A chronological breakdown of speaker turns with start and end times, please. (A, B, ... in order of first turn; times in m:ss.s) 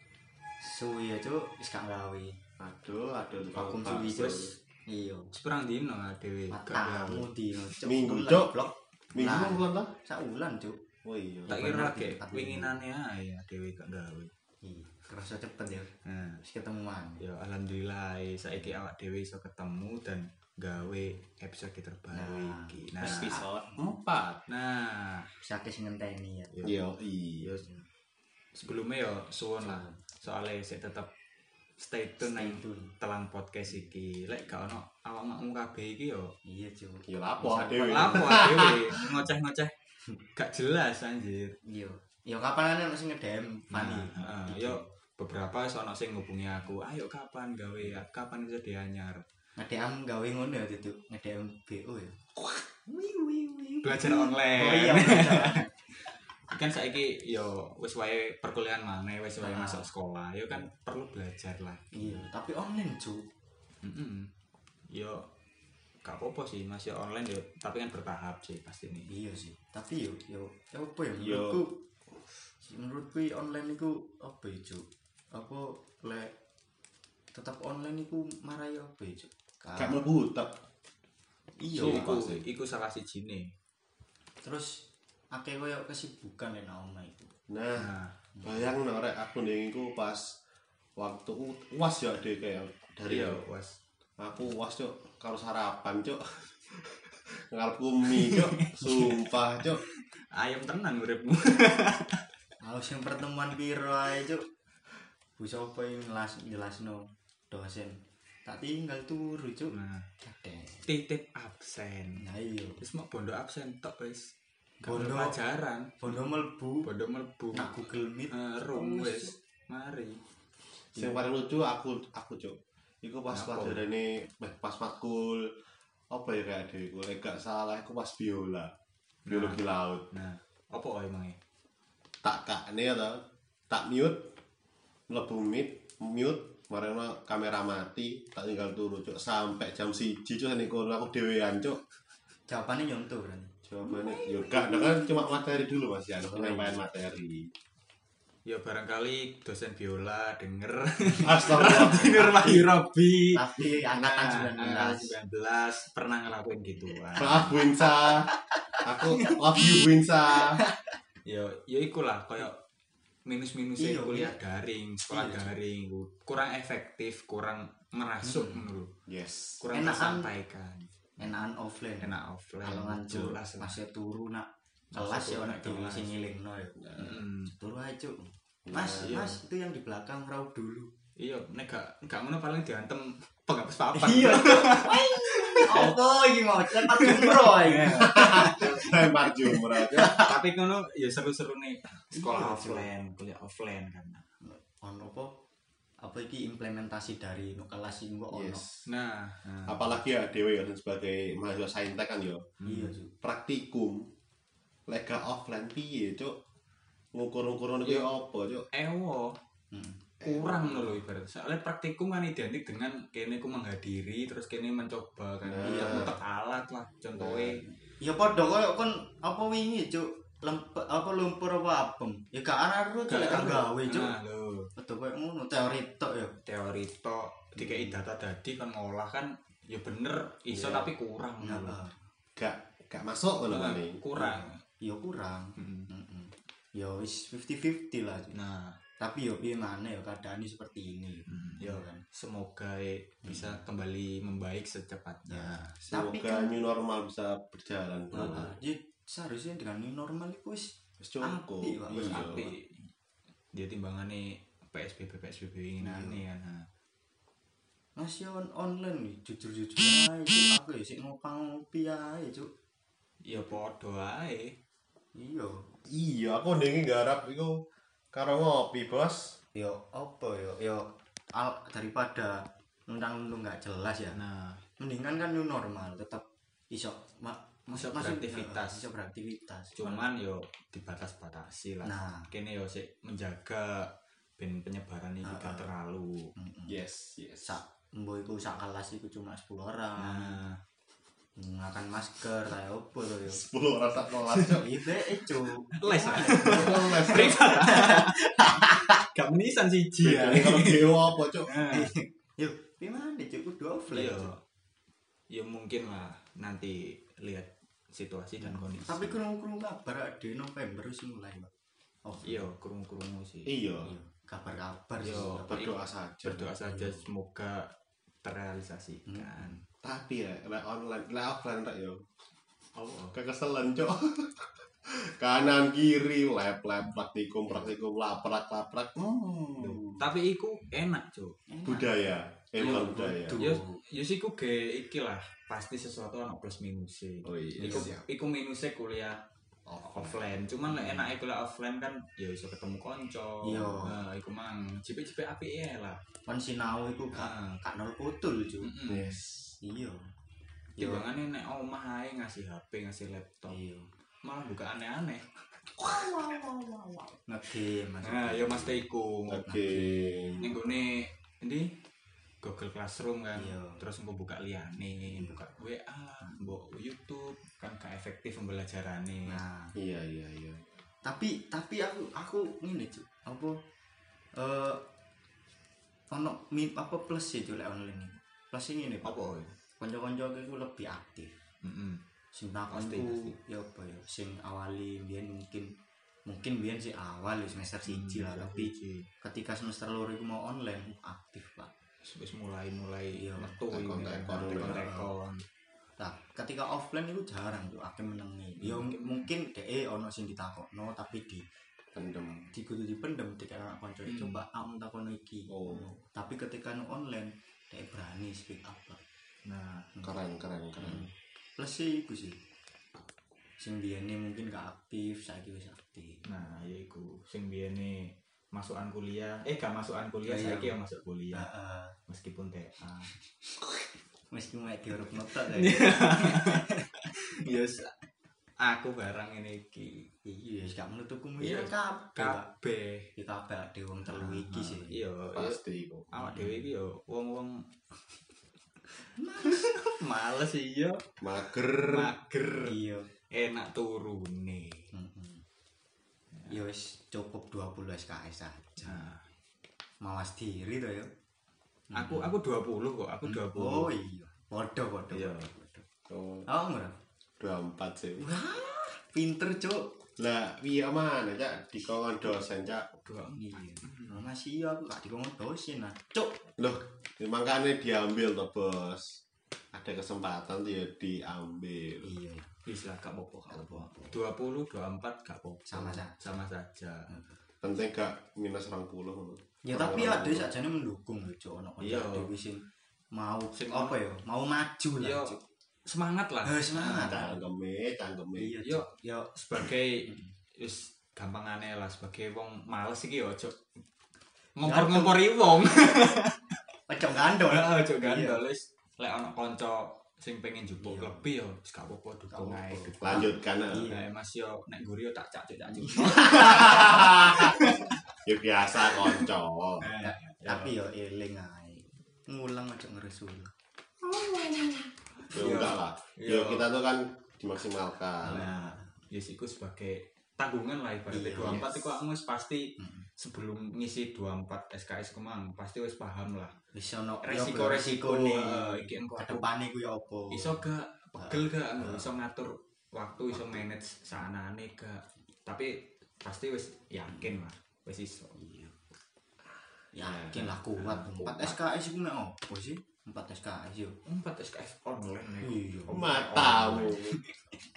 0:00.6-0:02.4 A
0:02.6-0:04.5 B
0:03.5-0:05.3 A
0:05.3-0:07.0 C
0:06.5-0:10.8 A
0:06.8-0:07.3 B
0:07.8-0:08.6 B
0:09.1-0:09.9 B
0:11.0-0:11.6 B
0:11.5-0:12.7 A
0:11.5-0:14.3 C
0:14.6-0:17.2 A
0:16.0-0:16.4 C
0:17.2-0:23.4 C
0:22.1-0:23.8 A
0:23.0-0:24.4 B
0:24.5-0:25.3 C
0:25.4-0:26.7 A
0:26.6-0:27.6 B
0:27.5-0:27.8 A
0:28.6-0:31.1 C
0:29.6-0:30.0 A
0:31.8-0:36.3 C
0:32.2-0:33.0 A
0:36.5-0:38.4 A
0:37.1-0:39.0 B
0:37.9-0:39.7 C
0:40.4-0:41.6 C
0:41.6-0:44.9 A
0:43.7-0:49.2 C
0:49.6-0:52.2 A
0:52.9-0:55.7 A
0:53.8-0:55.7 C
0:56.5-1:02.2 C
0:59.4-0:59.9 A
1:01.9-1:03.3 A
1:03.8-1:04.3 C
1:04.9-1:05.2 C
1:06.0-1:09.1 C
1:09.1-1:11.8 A
1:11.2-1:11.6 B
1:12.6-1:16.3 A
1:17.3-1:20.0 A
1:19.8-1:20.5 B
1:21.6-1:22.1 A
1:21.8-1:23.5 C
1:21.8-1:22.4 B
1:24.4-1:24.8 A
1:25.3-1:27.4 A
1:27.5-1:27.9 B
1:27.7-1:28.1 C
1:28.4-1:30.3 B
1:31.0-1:33.4 B
1:33.1-1:33.8 C
1:34.2-1:36.4 B
1:37.5-1:39.8 B
1:38.1-1:39.3 C
1:39.8-1:42.2 C
1:42.6-1:44.4 A
1:45.4-1:50.8 A
1:49.7-1:50.1 C
1:50.9-1:52.2 C
1:52.2-1:52.8 A
1:52.8-1:54.3 C
1:54.8-1:56.2 C
1:54.9-1:55.3 A
1:56.0-1:56.9 A
1:56.8-1:57.7 C
1:57.5-1:59.4 A
1:58.3-2:00.2 C
2:01.0-2:05.5 B
2:03.3-2:03.8 C
2:06.1-2:08.7 B
2:09.3-2:11.4 C
2:09.3-2:10.1 B
2:12.2-2:14.2 B
2:15.1-2:21.8 B
2:22.5-2:23.6 A
2:23.7-2:27.5 B
2:26.4-2:26.8 C
2:28.5-2:37.6 C
2:31.2-2:32.7 B
2:33.3-2:35.1 A
2:37.2-2:38.3 B
2:38.8-2:40.6 B
2:41.2-2:42.6 C
2:43.3-2:48.9 C
2:43.8-2:44.4 A
2:45.1-2:45.5 A
2:48.2-2:48.7 A
2:49.1-2:49.6 B
2:49.6-2:51.3 C
2:49.7-2:50.3 A
2:51.2-3:00.9 A
2:52.0-2:53.8 C
2:54.9-2:56.1 C
2:56.9-2:57.5 C
2:58.7-2:59.2 B
2:59.0-2:59.4 C
3:01.2-3:06.0 C
3:04.0-3:09.0 A
3:06.7-3:09.0 C
3:08.0-3:10.2 B
3:09.6-3:14.2 C
3:09.7-3:10.3 A
3:12.1-3:12.9 A
3:14.4-3:15.4 A
3:16.0-3:18.6 A
3:18.3-3:18.8 B
3:18.9-3:19.9 C
3:19.7-3:22.5 B
3:22.6-3:22.9 C
3:22.6-3:23.1 A
3:23.2-3:24.1 B
3:24.9-3:26.4 B
3:27.1-3:28.7 B
3:28.7-3:29.4 C
3:29.7-3:30.1 A
3:30.2-3:37.6 C
3:30.3-3:30.6 B
3:35.4-3:36.1 B
3:35.6-3:36.1 A
3:37.2-3:37.6 B
3:38.0-3:44.1 A
3:43.1-3:44.7 C
3:44.8-3:46.4 A
3:46.4-3:51.8 C
3:47.6-3:48.0 A
3:50.5-3:50.9 B
3:51.4-3:52.1 A
3:52.4-3:54.4 B
3:53.5-3:54.6 C
3:54.8-3:58.4 A
3:55.6-3:55.9 C
3:58.3-3:58.8 C
3:59.0-4:02.0 A
4:01.3-4:05.7 C
4:03.2-4:03.5 A
4:05.3-4:06.5 A
4:05.9-4:08.5 B
4:08.1-4:12.5 A
4:11.0-4:12.5 B
4:11.9-4:12.9 C
4:13.5-4:16.7 C
4:15.8-4:16.2 A
4:18.0-4:22.5 A
4:23.3-4:24.6 C
4:25.2-4:25.7 A
4:25.9-4:29.4 B
4:29.6-4:34.2 A
4:34.1-4:34.6 C
4:34.8-4:40.0 A
4:37.7-4:38.8 C
4:39.8-4:46.3 C
4:41.8-4:42.3 A
4:45.2-4:45.7 A
4:46.4-4:46.8 A
4:46.7-4:47.6 B
4:47.4-4:50.4 A
4:50.0-4:50.6 C
4:51.4-4:53.4 A
4:53.2-4:54.8 B
4:54.4-4:59.0 A
4:55.7-5:01.9 C
4:56.1-4:57.5 B
5:00.0-5:01.5 B
5:01.7-5:04.3 A
5:03.9-5:04.4 C
5:05.3-5:09.2 C
5:08.4-5:11.5 A
5:12.0-5:12.5 A
5:12.2-5:13.5 C
5:13.5-5:13.9 B
5:13.8-5:15.6 A
5:15.0-5:15.7 C
5:15.5-5:16.5 B
5:16.2-5:17.7 C
5:16.7-5:17.0 A
5:18.2-5:19.6 C
5:19.1-5:19.6 A
5:19.8-5:22.0 B
5:22.8-5:23.2 C
5:23.1-5:30.0 B
5:29.6-5:31.4 C
5:31.5-5:31.9 A
5:31.6-5:33.4 B
5:32.6-5:39.2 C
5:32.6-5:33.8 A
5:37.2-5:38.0 B
5:37.6-5:37.9 A
5:39.7-5:40.1 B
5:39.8-5:46.0 C
5:40.7-5:41.1 A
5:43.4-5:44.0 A
5:46.3-5:48.7 A
5:47.1-5:47.6 C
5:48.6-5:49.2 C
5:48.9-5:49.5 B
5:49.6-5:50.1 A
5:50.8-5:53.6 C
5:53.5-5:53.9 A
5:54.2-5:55.3 C
5:55.8-5:56.7 B
5:57.3-5:58.8 A
5:58.0-5:59.4 C
5:59.3-6:00.5 B
5:59.5-6:00.4 A
6:00.4-6:01.7 C
6:02.4-6:09.4 C
6:03.4-6:03.8 A
6:05.1-6:05.4 A
6:09.3-6:09.8 A
6:09.8-6:10.6 B
6:11.0-6:13.6 A
6:14.4-6:14.8 A
6:16.1-6:19.1 A
6:19.0-6:19.5 C
6:19.8-6:21.4 A
6:21.6-6:22.0 C
6:22.3-6:25.7 A
6:22.7-6:23.4 C
6:26.3-6:31.7 A
6:27.9-6:29.1 C
6:32.0-6:35.4 C
6:33.2-6:33.6 A
6:33.7-6:34.8 B
6:34.3-6:35.1 A
6:36.0-6:41.4 A
6:38.6-6:39.3 C
6:41.9-6:42.5 B
6:42.5-6:49.0 A
6:44.1-6:44.4 C
6:45.5-6:45.9 B
6:49.5-6:49.9 C
6:50.0-6:51.1 B
6:50.8-6:52.4 A
6:53.6-6:56.3 A
6:56.2-7:01.5 C
7:00.3-7:00.8 A
7:01.3-7:02.0 A
7:02.1-7:03.1 C
7:03.6-7:06.9 A
7:05.4-7:07.9 C
7:08.6-7:10.1 C
7:10.2-7:12.5 A
7:11.4-7:13.1 C
7:13.2-7:15.0 A
7:14.1-7:15.6 C
7:15.4-7:16.1 B
7:16.1-7:17.7 C
7:16.2-7:16.6 A
7:19.2-7:19.8 A
7:19.4-7:21.0 C
7:21.2-7:22.1 B
7:21.9-7:22.7 C
7:22.6-7:23.1 A
7:23.3-7:24.9 C
7:24.9-7:25.4 A
7:26.5-7:29.1 A
7:28.8-7:29.2 C
7:30.0-7:31.1 A
7:31.9-7:32.3 A
7:31.9-7:33.9 C
7:33.2-7:35.8 A
7:35.1-7:35.5 C
7:36.1-7:36.5 B
7:36.5-7:37.0 A
7:37.4-7:38.3 B
7:38.2-7:39.9 A
7:40.2-7:42.9 B
7:43.0-7:44.2 C
7:43.4-7:46.4 A
7:46.6-7:49.2 B
7:49.7-7:52.1 B
7:52.0-7:52.6 A
7:52.7-7:57.2 C
7:53.5-7:54.1 A
7:55.7-7:56.2 A
7:57.6-8:00.5 B
7:59.6-8:05.4 A
8:01.8-8:02.3 C
8:03.5-8:04.0 C
8:05.0-8:07.3 C
8:06.5-8:07.4 A
8:07.0-8:08.5 B
8:08.4-8:09.3 A
8:08.6-8:13.6 C
8:14.6-8:16.6 C
8:14.6-8:15.3 A
8:16.9-8:18.4 A
8:17.4-8:23.3 C
8:20.8-8:21.2 A
8:22.3-8:24.0 A
8:23.0-8:23.9 B
8:23.9-8:28.2 C
8:25.8-8:27.2 A
8:26.3-8:29.9 B
8:29.8-8:30.7 C
8:30.0-8:33.5 A
8:34.1-8:36.6 C
8:35.3-8:38.5 B
8:38.2-8:46.6 C
8:38.2-8:38.9 A
8:41.1-8:41.9 A
8:42.8-8:43.1 A
8:46.7-8:50.7 A
8:47.2-8:49.4 C
8:50.3-8:58.4 C
8:51.2-8:52.1 A
8:58.4-8:58.7 A
8:59.9-9:04.0 A
9:00.0-9:00.5 B
9:00.3-9:01.2 C
9:01.2-9:01.6 B
9:04.0-9:07.0 C
9:05.4-9:06.5 A
9:05.9-9:07.2 B